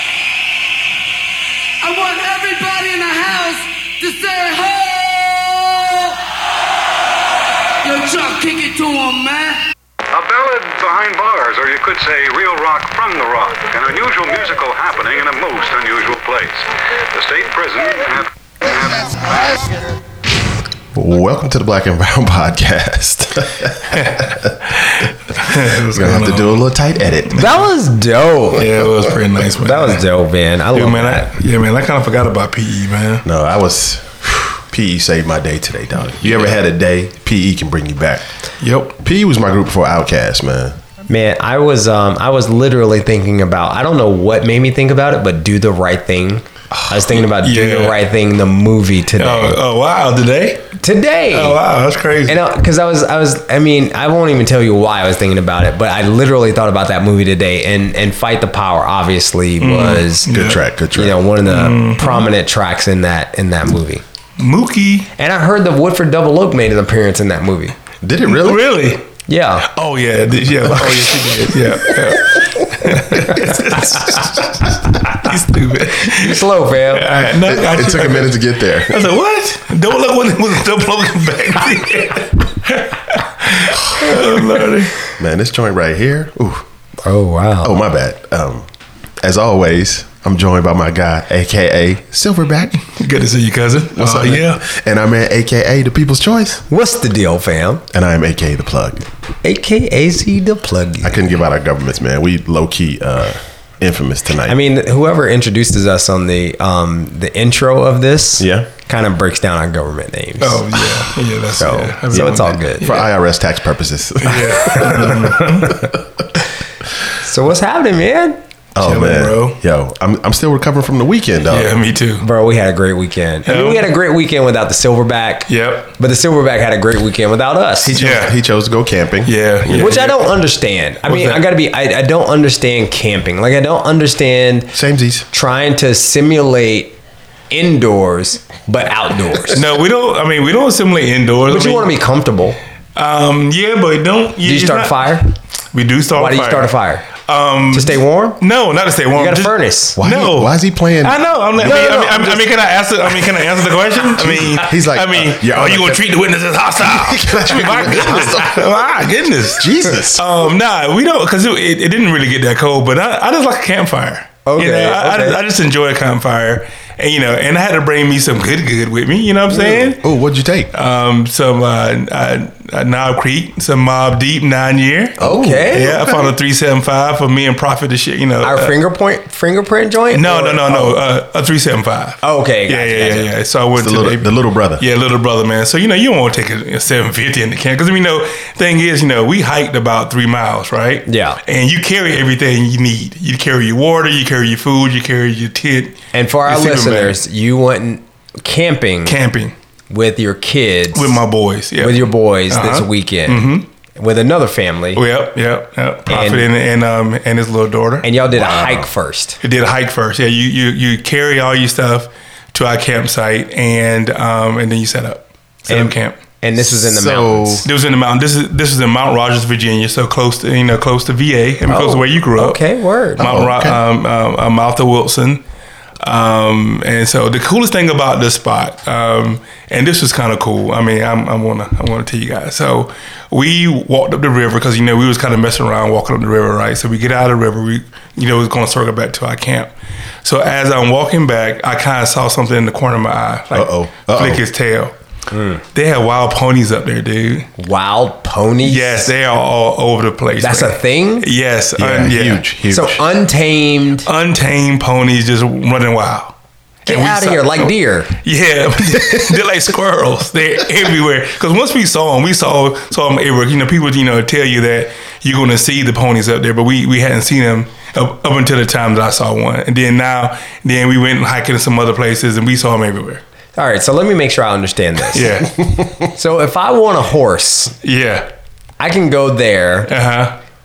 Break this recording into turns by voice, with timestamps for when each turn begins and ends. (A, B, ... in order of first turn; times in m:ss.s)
0:01.8-0:06.2 A
0:07.8-0:09.6 A
0:10.1-0:19.7 B
0:20.9-0:24.6 C
0:23.9-0:26.7 D
0:25.5-0:27.6 C
0:27.3-0:27.6 D
0:27.3-0:28.6 E
0:28.5-0:30.0 D
0:29.6-0:31.3 E
0:30.7-0:33.2 D
0:33.2-0:38.2 C
0:36.3-0:36.5 D
0:38.6-0:39.0 D
0:39.0-0:40.8 C
0:41.1-0:49.6 E
0:47.1-0:48.0 D
0:49.2-0:50.8 D
0:50.8-0:51.6 E
0:51.3-0:52.4 D
0:52.3-1:00.3 E
0:59.6-1:00.6 D
1:00.3-1:01.2 C
1:00.9-1:04.0 E
1:01.4-1:02.3 D
1:04.4-1:05.1 D
1:05.2-1:07.7 E
1:08.0-1:08.7 C
1:08.2-1:09.1 D
1:09.3-1:09.7 E
1:09.6-1:25.0 D
1:16.0-1:17.1 E
1:17.4-1:19.1 C
1:25.2-1:26.6 C
1:27.0-1:27.7 E
1:27.6-1:28.7 C
1:29.2-1:32.8 C
1:32.8-1:34.6 D
1:33.9-1:36.6 C
1:36.7-1:37.8 E
1:37.9-1:39.0 C
1:39.4-1:41.2 E
1:41.0-1:44.6 C
1:44.5-1:50.8 E
1:48.4-1:48.7 C
1:50.4-1:53.1 D
1:51.5-1:53.0 E
1:52.1-1:56.0 C
1:54.2-1:55.8 D
1:57.2-1:58.4 E
1:58.7-2:01.8 C
1:58.8-1:59.6 D
2:01.5-2:02.2 D
2:02.2-2:07.9 E
2:03.4-2:03.9 D
2:05.5-2:05.9 D
2:07.8-2:10.0 C
2:08.0-2:08.4 D
2:09.2-2:10.2 D
2:09.7-2:14.7 E
2:11.0-2:11.4 D
2:14.7-2:15.2 C
2:15.3-2:16.9 E
2:17.5-2:19.6 E
2:19.5-2:21.9 D
2:21.5-2:22.6 E
2:23.0-2:25.1 D
2:24.4-2:25.3 E
2:25.7-2:50.0 D
2:26.1-2:27.0 E
2:27.7-2:28.4 E
2:29.1-2:30.0 E
2:30.0-2:32.1 C
2:31.6-2:32.4 E
2:34.2-2:36.1 C
2:36.8-2:38.7 C
2:39.6-2:40.2 C
2:44.4-2:45.4 E
2:49.5-2:50.7 C
2:50.7-2:58.7 D
2:55.2-2:55.8 C
2:55.2-2:56.3 E
2:58.4-3:01.0 E
3:00.1-3:17.2 D
3:02.2-3:03.3 E
3:03.8-3:04.8 C
3:11.0-3:11.4 E
3:16.1-3:19.2 E
3:19.0-3:19.5 D
3:19.9-3:21.2 E
3:20.9-3:23.6 D
3:21.8-3:25.0 E
3:24.9-3:28.1 D
3:26.1-3:26.5 E
3:28.0-3:29.4 E
3:28.3-3:28.9 C
3:29.4-3:36.2 D
3:35.7-3:37.7 E
3:36.6-3:37.7 C
3:37.6-3:42.6 D
3:41.7-3:43.3 E
3:43.2-3:45.4 D
3:43.2-3:43.8 C
3:46.0-3:59.7 D
4:00.2-4:04.9 D
4:03.5-4:04.4 C
4:05.3-4:05.6 E
4:05.7-4:07.5 D
4:07.6-4:09.1 E
4:08.6-4:12.4 D
4:10.4-4:11.3 E
4:11.8-4:13.0 C
4:12.7-4:14.1 E
4:14.0-4:16.3 D
4:16.8-4:18.2 E
4:16.8-4:33.2 D
4:33.6-4:37.7 E
4:35.1-4:35.6 D
4:37.8-4:38.3 D
4:38.8-4:39.9 E
4:39.9-4:40.4 D